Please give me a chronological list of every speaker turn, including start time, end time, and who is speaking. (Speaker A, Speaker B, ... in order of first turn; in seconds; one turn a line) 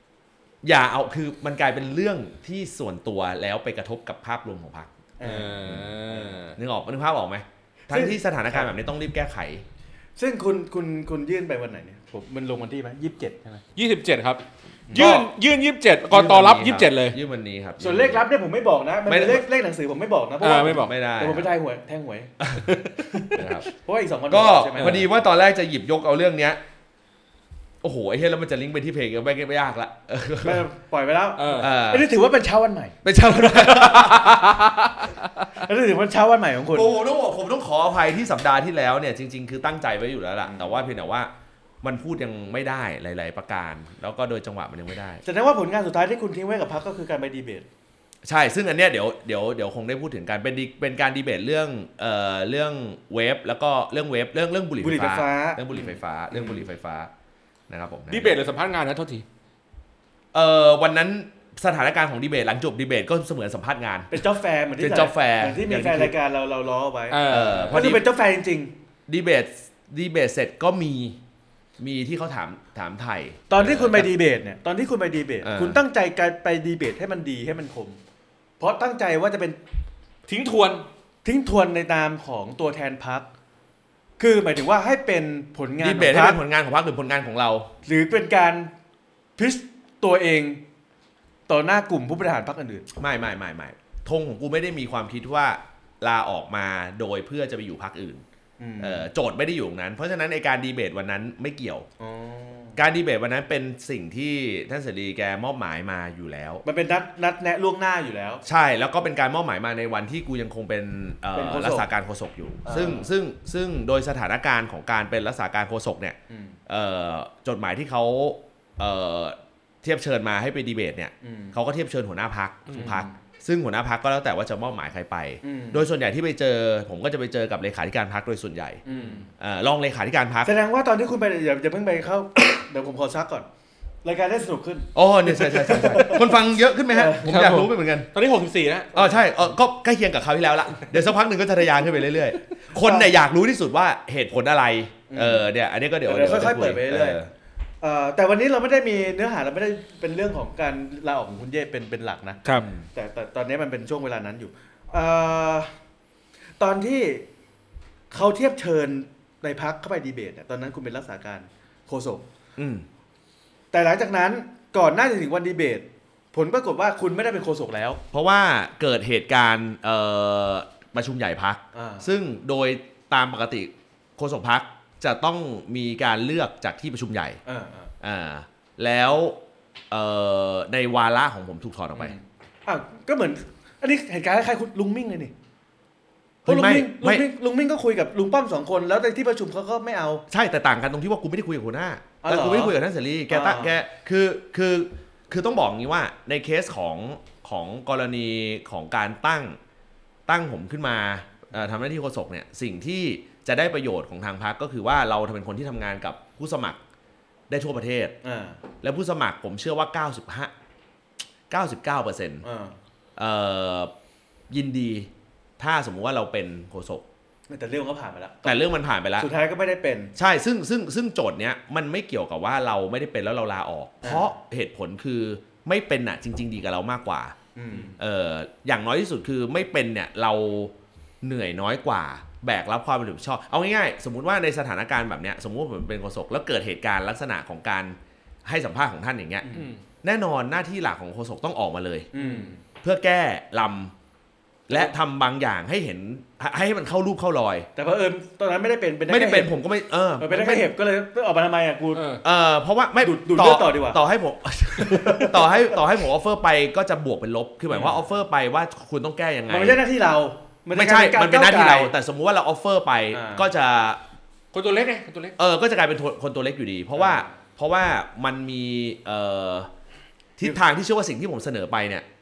Speaker A: 0.6-4.9
Speaker B: 5.2-6.4
Speaker C: 5.2-6.6
Speaker A: 5.6-6.0
Speaker A: 6.5-9.6
Speaker B: 7.9-8.8
Speaker B: 10.2-13.6
Speaker C: 13.8-14.4
Speaker B: 14.9-15.3
Speaker C: 14.9-17.2
Speaker A: 14.9-15.3
Speaker A: 16.1-18.2
Speaker B: 17.8-22.3
Speaker A: 19.1-19.5
Speaker C: 20.4-20.9
Speaker A: 20.6-21.5
Speaker A: 22.4-22.8
Speaker C: 22.6-23.0
Speaker B: 23.1-25.1
Speaker A: 23.3-23.7
Speaker A: 24.3-26.6
Speaker C: 24.8-25.1
Speaker A: 27.8-30.6
Speaker B: 30.4-33.0
Speaker C: 31.4-31.7
Speaker A: 31.6-32.1
Speaker A: 33.0-34.6
Speaker C: 34.1-34.4
Speaker B: 35.6-36.9
Speaker A: 36.7-41.3
Speaker B: 40.4-40.8
Speaker A: 41.8-45.2
Speaker B: 45.2-47.6
Speaker A: 48.2-57.1
Speaker B: 54.8-56.6
Speaker A: 57.7-58.4
Speaker C: 58.1-59.2
Speaker A: 60.3-64.2
Speaker B: 64.1-68.7
Speaker A: 64.8-66.1
Speaker C: 67.1-68.0
Speaker A: 67.3-68.0
Speaker A: 69.1-71.2
Speaker A: 71.8-74.1
Speaker B: 73.5-78.0
Speaker A: 75.4-75.8
Speaker B: 78.6-79.6
Speaker C: 80.3-80.9
Speaker B: 81.2-83.3
Speaker B: 84.2-86.4
Speaker A: 85.8-87.7
Speaker B: 87.8-88.7
Speaker B: 89.4-90.6
Speaker B: 91.5-92.9
Speaker A: 93.0-98.2
Speaker B: 98.6-99.1
Speaker A: 98.8-101.9
Speaker B: 102.0-102.8
Speaker A: 102.8-106.6
Speaker B: 106.6-108.4
Speaker A: 108.5-130.5
Speaker B: 111.3-111.9
Speaker B: 112.6-113.1
Speaker B: 116.3-116.6
Speaker B: 121.2-121.6
Speaker B: 122.7-123.1
Speaker B: 125.4-125.9
Speaker B: 128.9-129.3
Speaker B: 130.4-133.5
Speaker B: 134.0-137.4
Speaker A: 134.9-138.1
Speaker C: 137.2-138.9
Speaker A: 138.9-147.3
Speaker B: 142.8-143.1
Speaker B: 145.1-145.5
Speaker B: 146.1-147.2
Speaker B: 147.8-152.4
Speaker C: 152.4-152.7
Speaker B: 152.9-155.7
Speaker B: 156.6-157.3
Speaker B: 158.1-162.3
Speaker A: 162.6-162.9
Speaker B: 163.7-168.0
Speaker A: 168.1-177.4
Speaker B: 171.7-172.1
Speaker B: 177.5-177.9
Speaker A: 178.0-179.4
Speaker A: 179.9-182.1
Speaker B: 181.9-185.3
Speaker A: 186.4-187.3
Speaker B: 186.5-190.2
Speaker A: 190.3-199.6
Speaker B: 192.2-192.8
Speaker B: 193.3-193.8
Speaker A: 200.3-206.8
Speaker A: 207.5-208.1
Speaker B: 208.2-208.6
Speaker A: 208.8-210.5
Speaker A: 211.5-212.4
Speaker B: 212.4-212.8
Speaker A: 213.2-213.9
Speaker A: 214.5-217.1
Speaker B: 217.5-218.6
Speaker A: 218.4-219.3
Speaker B: 219.2-220.1
Speaker A: 220.1-227.3
Speaker B: 224.0-224.3
Speaker B: 227.6-228.0
Speaker A: 227.9-239.5
Speaker B: 239.4-239.7
Speaker C: 239.5-239.8
Speaker A: 240.0-242.1
Speaker B: 242.1-242.6
Speaker C: 242.1-242.5
Speaker A: 242.8-243.9
Speaker A: 244.7-247.7
Speaker B: 247.8-249.5
Speaker A: 249.1-250.7
Speaker B: 250.2-252.1
Speaker C: 251.9-252.2
Speaker A: 252.2-259.8
Speaker B: 253.0-254.0
Speaker B: 254.8-255.8
Speaker B: 259.5-261.9
Speaker A: 260.8-264.0
Speaker B: 263.1-263.5
Speaker C: 264.5-265.4
Speaker A: 265.4-269.7
Speaker B: 266.9-267.3
Speaker A: 270.4-272.1